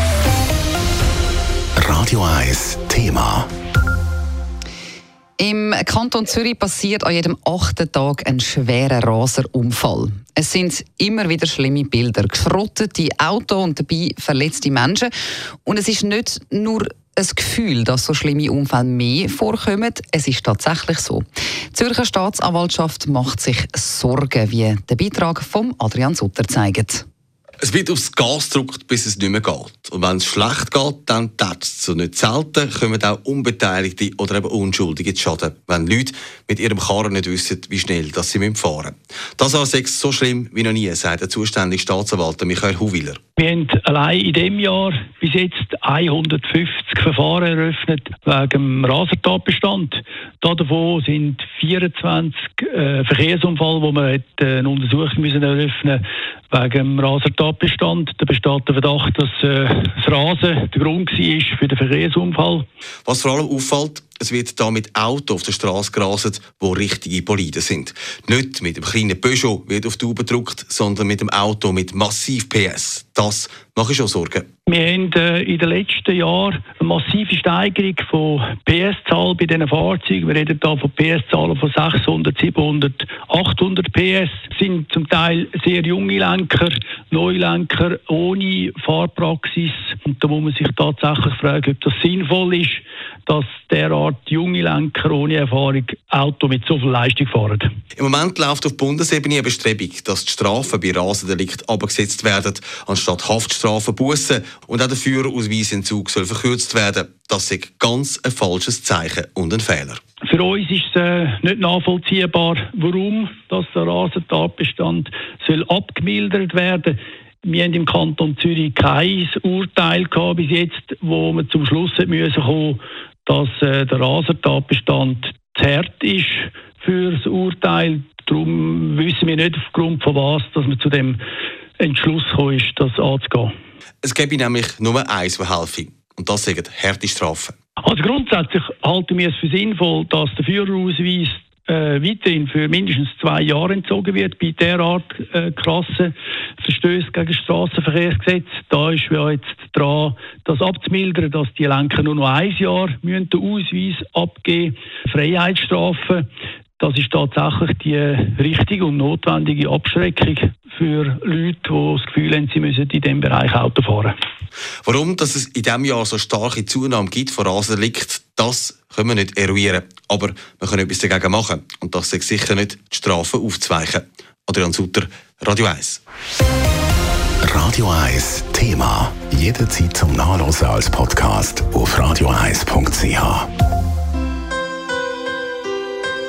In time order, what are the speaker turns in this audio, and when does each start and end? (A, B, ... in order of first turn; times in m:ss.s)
0:01.8-0:03.5 A
0:05.4-0:15.1 B
0:15.6-0:27.0 B
0:27.6-0:43.2 C
0:43.4-1:02.6 D
1:03.0-1:14.4 C
1:14.7-1:37.7 D
1:38.0-1:50.0 C
1:50.2-2:11.2 D
2:11.8-2:13.5 D
2:14.0-2:17.5 C
2:17.8-2:36.2 D
2:36.8-2:44.1 D
2:44.8-2:56.0 C
2:57.4-3:03.5 A